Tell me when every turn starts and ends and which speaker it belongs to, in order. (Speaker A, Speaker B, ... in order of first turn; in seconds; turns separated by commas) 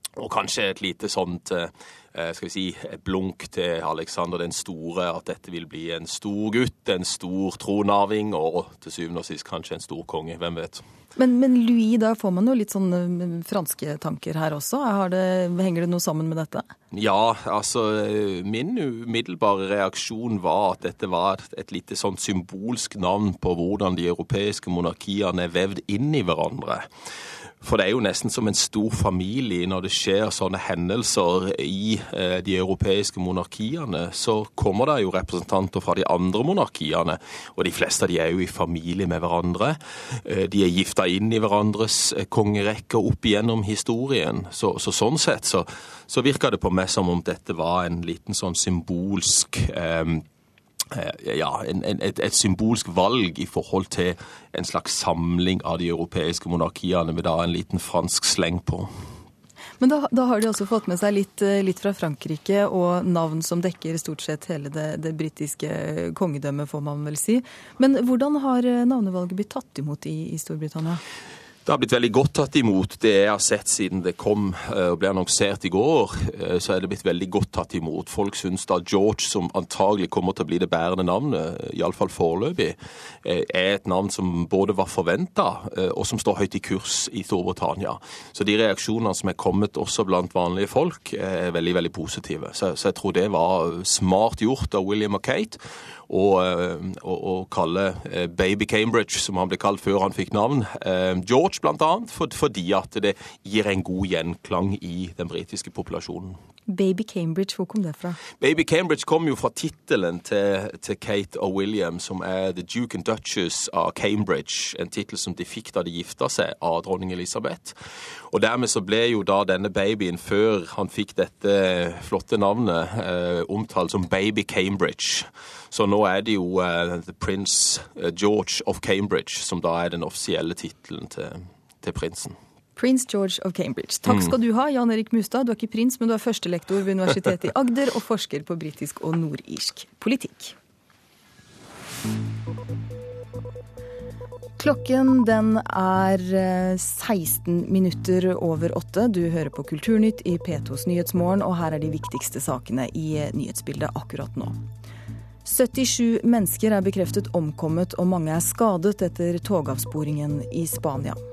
Speaker A: 0.2-10.8, Speaker B: 11.2-16.7, Speaker A: 16.9-26.9, Speaker A: 27.6-50.2, Speaker A: 50.9-58.9, Speaker B: 59.8-71.0, Speaker A: 71.7-106.4, Speaker B: 106.7-108.2, Speaker A: 108.4-117.8, Speaker A: 118.3-132.4, Speaker B: 132.8-140.6, Speaker A: 134.1-134.3, Speaker B: 144.6-154.6, Speaker B: 155.4-161.2